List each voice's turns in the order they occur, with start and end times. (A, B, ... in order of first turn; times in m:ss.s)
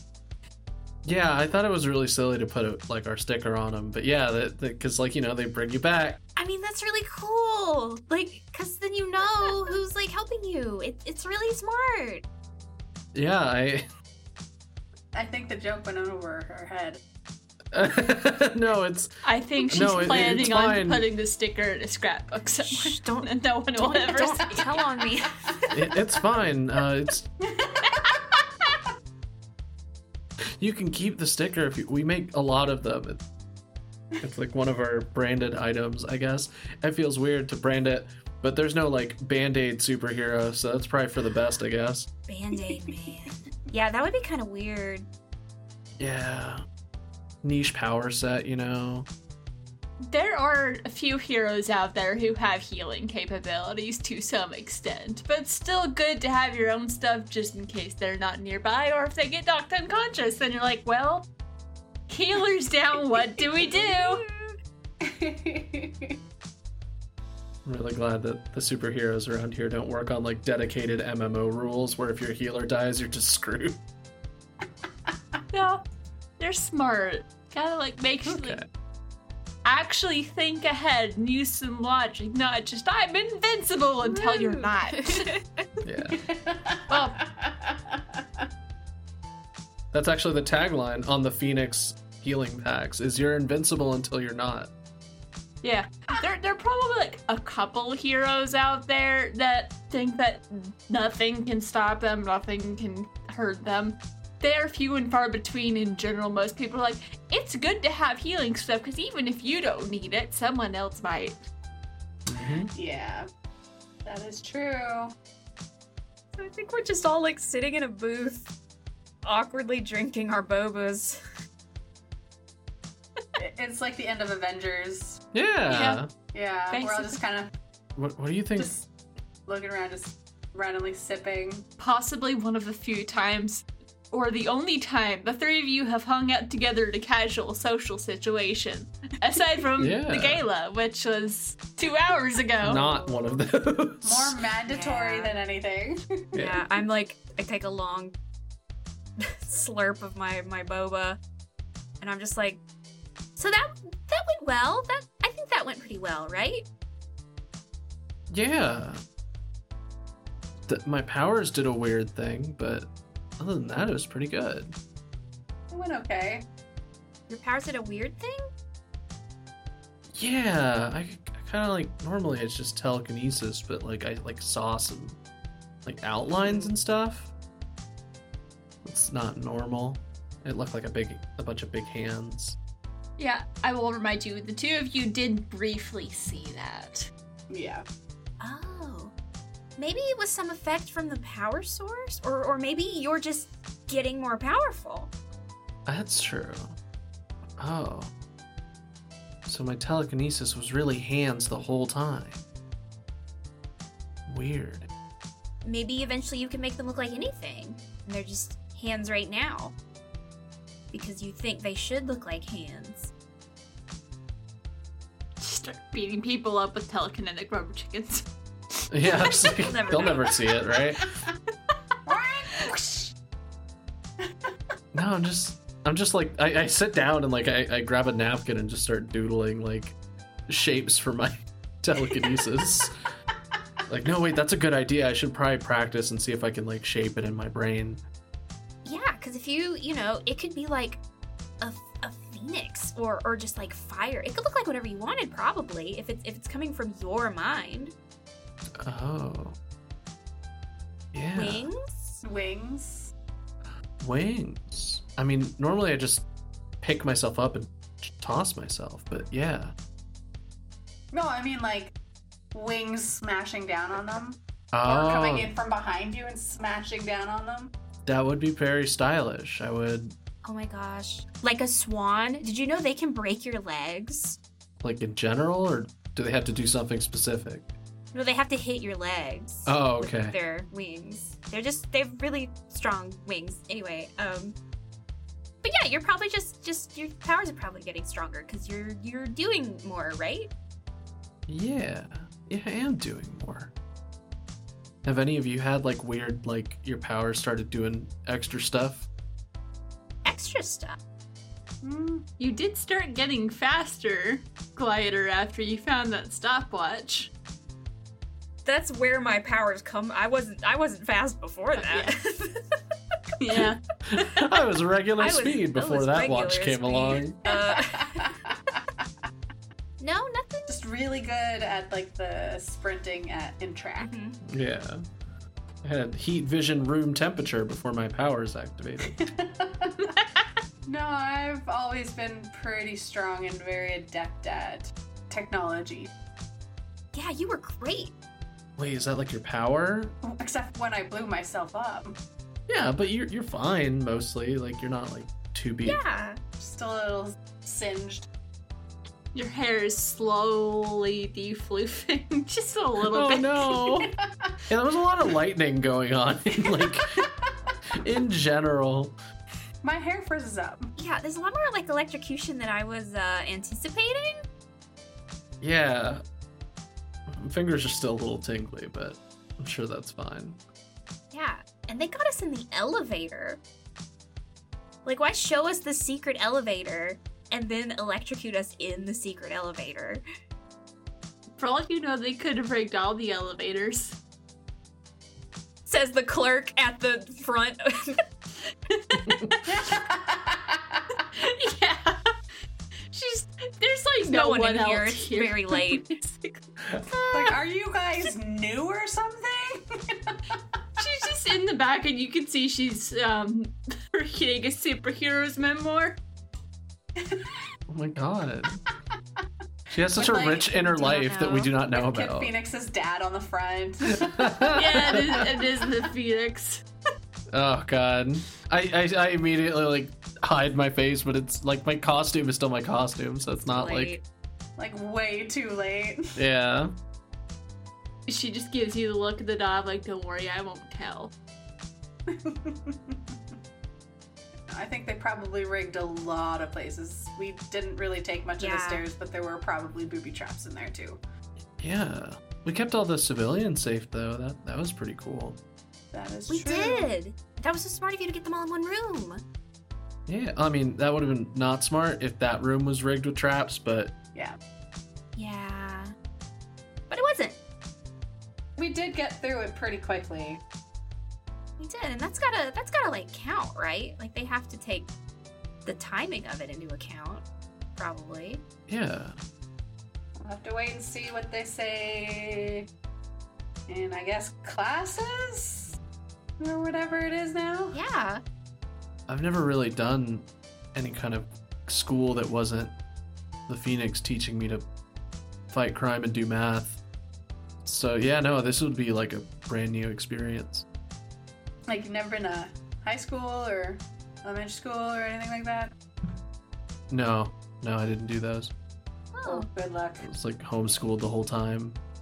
0:01.0-0:06.2 A
0:06.4-0:12.2 B
0:13.1-0:13.8 A
0:15.1-0:17.0 C
0:17.7-0:21.0 A
0:19.2-0:24.8 D
0:22.7-0:25.9 B
0:25.7-0:27.3 A
0:27.4-0:28.2 C
0:30.6-0:33.2 A
0:34.2-0:42.1 A
0:42.3-0:45.0 B
0:46.0-0:46.6 A
0:47.4-0:49.1 A
0:50.0-1:01.3 D
1:02.1-1:04.2 D
1:03.3-1:04.6 B
1:05.0-1:06.2 C
1:07.6-1:13.8 A
1:15.5-1:15.8 D
1:16.4-1:18.6 D
1:18.2-1:18.7 A
1:19.6-1:25.3 D
1:24.0-1:25.6 B
1:25.8-1:26.2 A
1:26.1-1:28.4 C
1:26.9-1:27.2 D
1:29.9-1:34.7 A
1:35.6-1:51.4 D
1:52.3-1:52.7 A
1:52.7-1:53.3 C
1:54.0-1:55.1 C
1:56.4-1:58.4 B
1:59.2-2:01.2 B
2:03.4-2:05.2 C
2:05.3-2:06.1 A
2:05.7-2:06.0 D
2:06.3-2:07.5 C
2:06.7-2:07.2 D
2:08.0-2:08.7 A
2:08.6-2:08.8 C
2:09.5-2:11.6 C
2:11.8-2:22.8 D
2:19.8-2:20.4 A
2:22.6-2:24.4 A
2:22.7-2:23.4 B
2:24.0-2:26.2 C
2:24.7-2:25.3 B
2:26.3-2:26.7 A
2:26.4-2:28.1 B
2:29.2-2:31.2 B
2:32.0-2:32.6 B
2:33.4-2:36.6 B
2:38.3-2:39.0 A
2:40.6-2:44.7 A
2:45.7-2:46.4 C
2:47.3-2:48.5 B
2:50.1-2:55.2 A
2:55.8-2:57.3 A
2:56.4-2:56.7 B
2:58.8-3:02.6 A
3:03.2-3:07.1 D
3:07.5-3:07.8 C
3:08.4-3:09.1 B
3:09.8-3:15.1 B
3:15.8-3:16.8 A
3:17.6-3:18.1 A
3:19.4-3:22.4 A
3:24.3-3:24.9 A
3:25.6-3:29.8 B
3:30.9-3:33.1 B
3:35.4-3:38.3 D
3:38.9-3:41.0 A
3:39.0-3:40.3 D
3:39.4-3:40.3 B
3:42.0-3:43.1 C
3:44.9-3:50.0 A
3:50.5-3:52.9 A
3:53.9-3:58.0 A
3:58.8-4:01.0 B
4:01.6-4:07.9 B
4:08.8-4:09.6 A
4:11.1-4:11.7 A
4:11.3-4:12.2 B
4:12.2-4:13.1 C
4:14.0-4:16.2 A
4:16.8-4:19.7 A
4:21.1-4:21.9 C
4:22.5-4:27.7 C
4:24.7-4:25.5 A
4:28.0-4:30.1 A
4:30.4-4:34.4 B
4:34.8-4:37.7 A
4:38.1-4:44.6 B
4:39.6-4:40.4 A
4:45.6-4:50.5 B
4:51.5-4:53.7 A
4:55.0-4:59.0 A
5:00.2-5:01.0 B
5:01.8-5:02.2 C
5:02.4-5:07.3 D
5:08.6-5:12.8 B
5:11.7-5:12.1 D
5:13.4-5:14.3 D
5:14.0-5:17.4 A
5:15.2-5:18.3 B
5:17.4-5:18.8 C
5:20.0-5:20.8 B
5:20.7-5:24.1 C
5:24.0-5:24.4 B
5:24.5-5:25.0 A
5:25.8-5:29.2 A
5:29.0-5:30.1 C
5:30.0-5:30.4 D
5:30.8-5:36.1 C
5:37.1-5:38.1 B
5:38.8-5:40.1 A
5:40.2-5:42.2 C
5:42.7-5:46.0 A
5:45.8-5:46.4 B
5:46.6-5:48.3 C
5:49.3-5:53.7 D
5:53.0-5:54.1 A
5:53.9-5:54.5 C
5:54.7-5:57.2 A
5:56.6-5:57.7 C
5:57.9-5:59.2 A
5:59.8-6:00.9 C
6:01.0-6:04.4 B
6:05.6-6:06.2 A
6:07.3-6:10.6 A
6:11.3-6:13.6 B
6:15.0-6:20.2 B
6:21.6-6:24.2 D
6:25.8-6:28.2 B
6:28.9-6:29.7 D
6:29.6-6:31.1 C
6:31.3-6:32.2 D
6:33.1-6:36.6 D
6:34.2-6:36.1 B
6:37.3-6:40.5 C
6:41.0-6:46.2 D
6:47.2-6:47.5 C
6:47.9-6:48.8 A
6:49.9-6:52.5 A
6:50.1-6:50.7 C
6:50.7-6:51.7 B
6:51.9-6:55.5 C
6:54.1-6:55.5 A
6:54.7-6:56.8 D
6:57.5-7:04.2 A
7:03.6-7:04.2 B
7:04.8-7:06.3 C
7:06.4-7:06.9 A
7:08.3-7:11.3 D
7:12.3-7:13.3 C
7:14.7-7:21.2 C
7:18.6-7:19.0 B
7:21.8-7:25.6 A
7:26.1-7:27.1 C
7:26.5-7:29.4 B
7:30.3-7:34.1 A
7:35.4-7:36.1 B
7:37.1-7:37.6 B
7:38.8-7:40.6 C
7:41.8-7:45.1 B
7:45.8-7:47.4 B
7:48.0-7:48.6 B
7:48.9-7:49.4 A
7:50.4-7:52.8 C
7:53.9-7:55.9 C
7:56.6-7:58.0 C
7:57.9-7:58.4 B
7:59.3-8:02.9 A
8:03.7-8:04.8 A
8:05.7-8:07.0 A
8:07.8-8:10.8 A
8:11.9-8:15.9 C
8:17.1-8:18.7 A
8:19.3-8:19.7 B
8:19.4-8:20.3 C
8:20.2-8:22.0 A